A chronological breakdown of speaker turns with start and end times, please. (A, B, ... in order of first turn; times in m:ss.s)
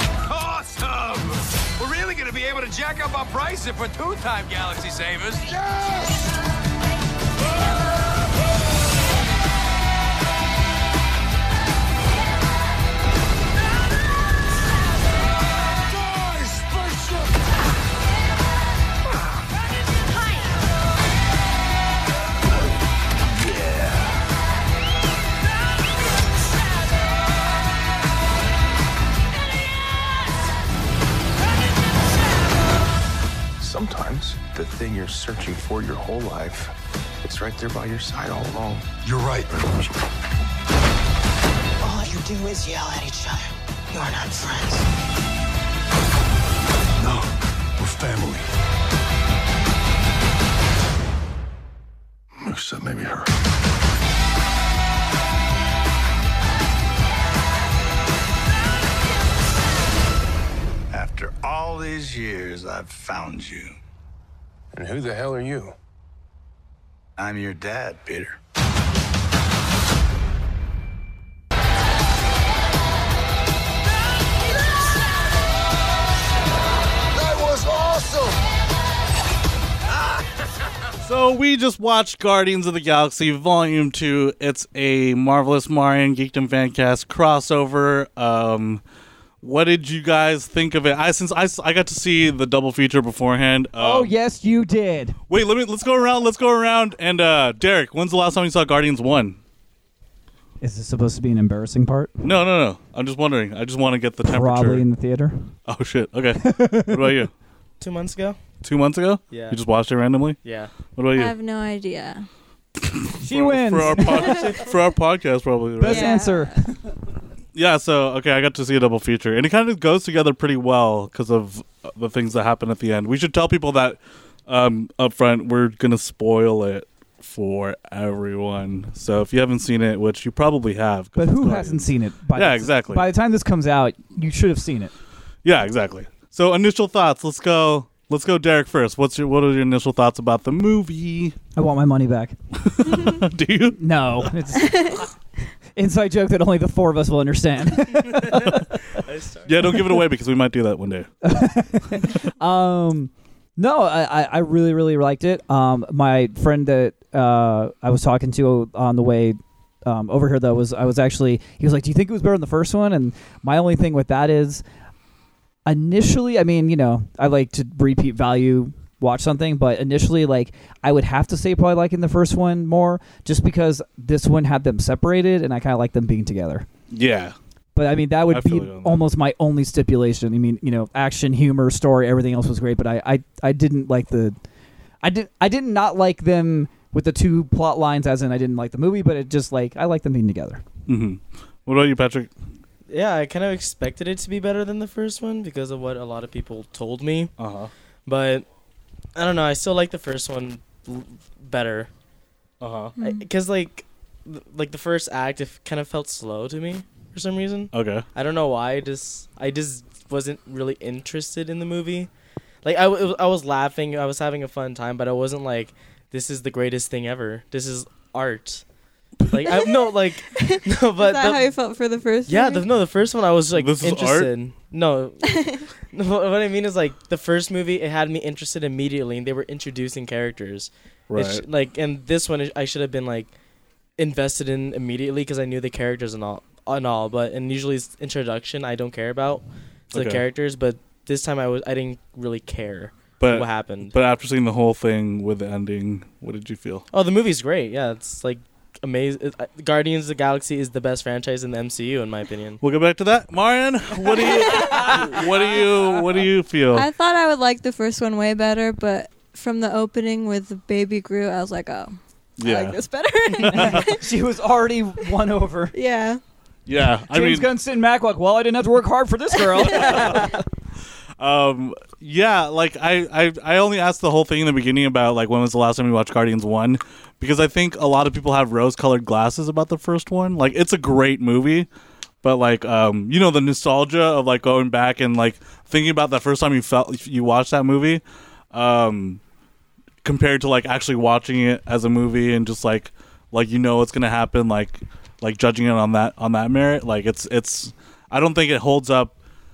0:00.3-0:06.3 A
0:15.9-0:17.3 A
0:23.5-0:24.0 B
0:33.6-0:36.7 A
0:37.2-0:38.9 A
0:39.0-0:39.6 C
0:41.8-0:44.8 D
0:47.0-0:48.4 C
0:52.4-0:53.3 C
1:00.9-1:03.7 B
1:04.7-1:05.7 A
1:07.2-1:08.4 B
1:17.1-1:18.4 A
1:21.0-1:28.8 E
1:29.4-1:34.1 E
1:33.8-1:35.2 F
1:35.3-1:39.4 E
1:40.6-1:42.2 F
1:42.2-1:44.8 E
1:44.2-1:45.5 F
1:45.6-1:47.3 E
1:46.4-1:47.2 F
1:47.8-1:48.4 G
1:48.6-1:50.4 E
1:49.3-1:49.6 G
1:50.4-1:50.7 G
1:51.0-1:51.3 E
1:51.1-1:52.2 H
1:52.8-1:56.2 E
1:53.2-1:54.5 F
1:55.8-1:56.8 F
1:55.8-1:56.5 H
1:57.5-2:13.0 E
2:11.2-2:14.9 F
2:15.4-2:21.4 E
2:21.5-2:22.3 F
2:22.6-2:24.3 E
2:23.8-2:25.0 F
2:24.6-2:25.0 H
2:25.8-2:28.6 F
2:28.2-2:29.8 G
2:29.4-2:31.1 E
2:31.2-2:44.6 F
2:45.6-2:56.6 F
2:56.9-2:57.3 E
2:57.7-3:04.4 F
2:58.3-2:59.0 E
3:05.0-3:10.6 F
3:10.9-3:12.3 E
3:12.9-3:17.3 G
3:17.4-3:17.7 E
3:18.1-3:18.4 G
3:19.1-3:21.9 G
3:22.6-3:22.9 E
3:23.0-3:23.2 H
3:23.0-3:32.1 G
3:27.7-3:28.0 E
3:32.6-3:38.6 G
3:39.3-3:41.5 G
3:39.5-3:42.6 H
3:42.3-3:53.3 G
3:43.5-3:44.3 E
3:45.3-3:45.6 H
3:51.1-3:51.4 E
3:54.0-4:03.9 G
3:59.9-4:00.2 E
4:03.2-4:06.8 E
4:06.9-4:12.6 G
4:12.6-4:16.9 E
4:16.7-4:24.0 H
4:22.4-4:22.8 E
4:23.5-4:25.7 F
4:23.5-4:23.9 E
4:25.7-4:26.2 H
4:26.7-4:27.5 E
4:27.1-4:30.4 F
4:29.8-4:30.3 E
4:31.2-4:41.7 E
4:42.2-4:49.2 E
4:50.0-4:59.1 E